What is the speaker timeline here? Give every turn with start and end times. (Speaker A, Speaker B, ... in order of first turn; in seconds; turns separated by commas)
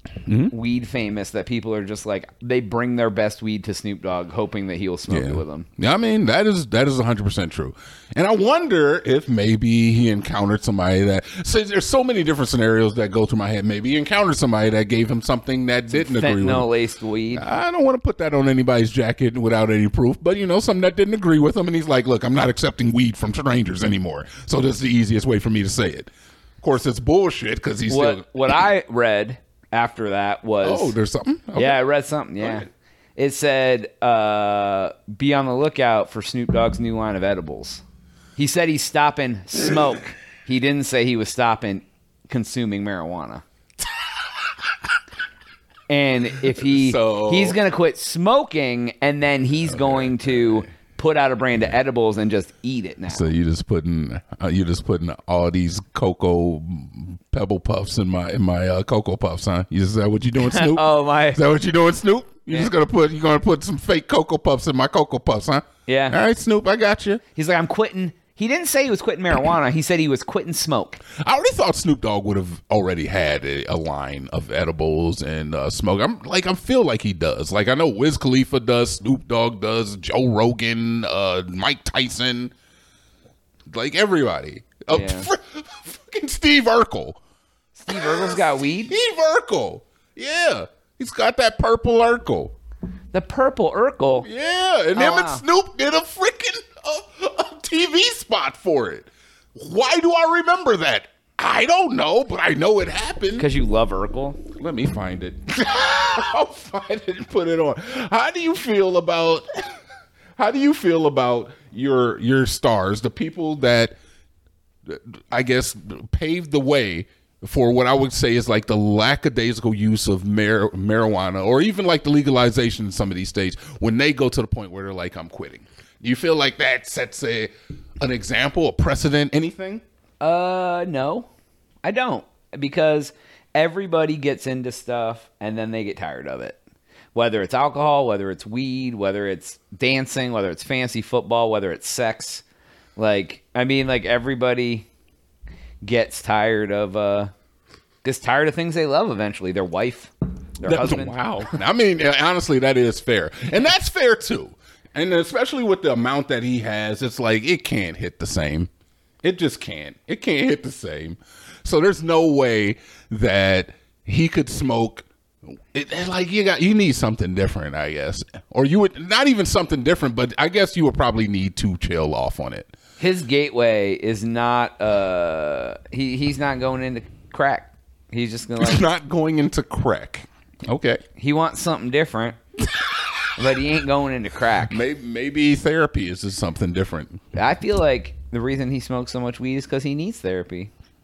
Speaker A: 0.2-0.5, Speaker B: 0.5-5.7, Speaker A: 5.1-16.7, Speaker B: 15.9-17.4, Speaker A: 17.3-28.5, Speaker B: 27.9-30.9, Speaker A: 30.6-31.8, Speaker B: 31.5-37.8, Speaker B: 38.4-43.4, Speaker B: 45.9-53.3, Speaker A: 46.6-47.6, Speaker A: 49.7-50.7, Speaker A: 53.1-67.2, Speaker B: 60.4-61.4, Speaker B: 65.8-66.2, Speaker B: 67.3-71.0, Speaker A: 71.2-82.5, Speaker A: 83.7-87.2, Speaker B: 84.9-85.3, Speaker B: 87.8-88.9, Speaker A: 87.9-92.5, Speaker B: 93.1-94.3, Speaker A: 94.2-103.5, Speaker B: 95.0-95.4, Speaker B: 103.4-104.4, Speaker A: 104.5-109.5, Speaker A: 110.4-113.9, Speaker A: 114.8-129.8, Speaker B: 130.2-131.3, Speaker B: 131.8-136.6, Speaker B: 137.1-142.4, Speaker B: 143.0-144.8, Speaker B: 145.8-147.3, Speaker B: 148.0-151.4, Speaker A: 150.6-158.7, Speaker A: 159.2-165.1, Speaker A: 165.7-172.7, Speaker B: 173.0-178.8, Speaker A: 178.6-181.0, Speaker B: 181.2-182.4, Speaker B: 183.4-184.8, Speaker A: 184.7-187.2, Speaker B: 187.3-190.7